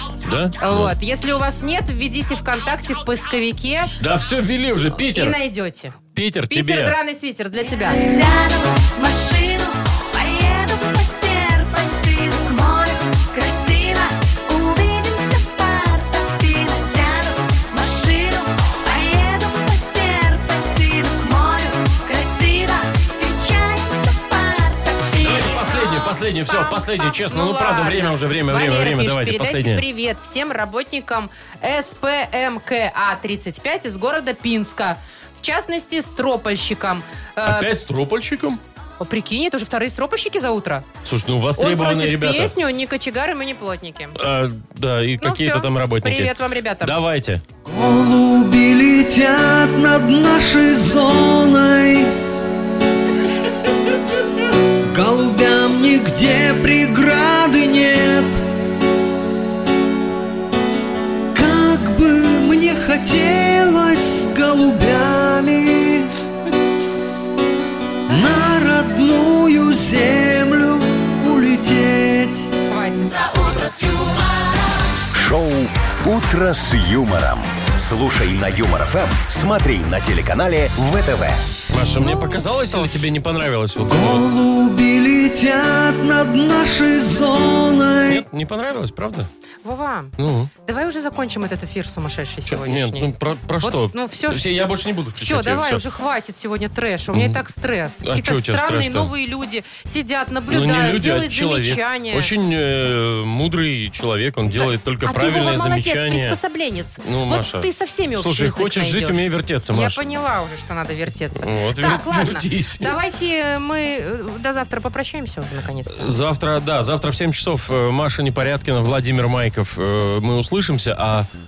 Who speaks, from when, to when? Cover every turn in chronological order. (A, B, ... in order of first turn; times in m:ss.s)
0:00.2-0:00.9 A
0:00.6-0:03.9 B
0:04.0-0:05.4 A
0:04.9-0:06.0 B
0:06.1-0:06.9 A
0:06.5-0:08.1 B
0:07.9-0:26.0 C
0:25.2-0:29.8 A
0:26.5-0:37.7 B
0:37.4-0:38.6 A
0:39.0-0:40.8 B
0:41.0-0:42.5 A
0:41.6-0:44.2 B
0:44.2-0:47.4 A
0:45.2-0:47.0 B
0:47.6-0:52.1 D
0:54.9-0:58.3 D
1:01.3-1:06.1 D
1:08.1-1:12.5 D
1:12.7-1:13.2 B
1:13.0-1:14.9 C
1:15.1-1:21.4 E
1:21.7-1:24.2 A
1:22.0-1:23.1 B
1:23.8-1:28.2 D
1:28.1-1:29.3 A
1:29.6-1:34.5 B
1:30.2-1:30.5 A
1:32.5-1:35.8 A
1:35.2-1:42.3 B
1:37.1-1:37.4 A
1:38.0-1:39.1 A
1:40.5-1:46.4 A
1:44.6-1:56.2 B
1:47.0-1:50.0 A
1:51.4-1:52.9 A
1:55.8-2:01.3 A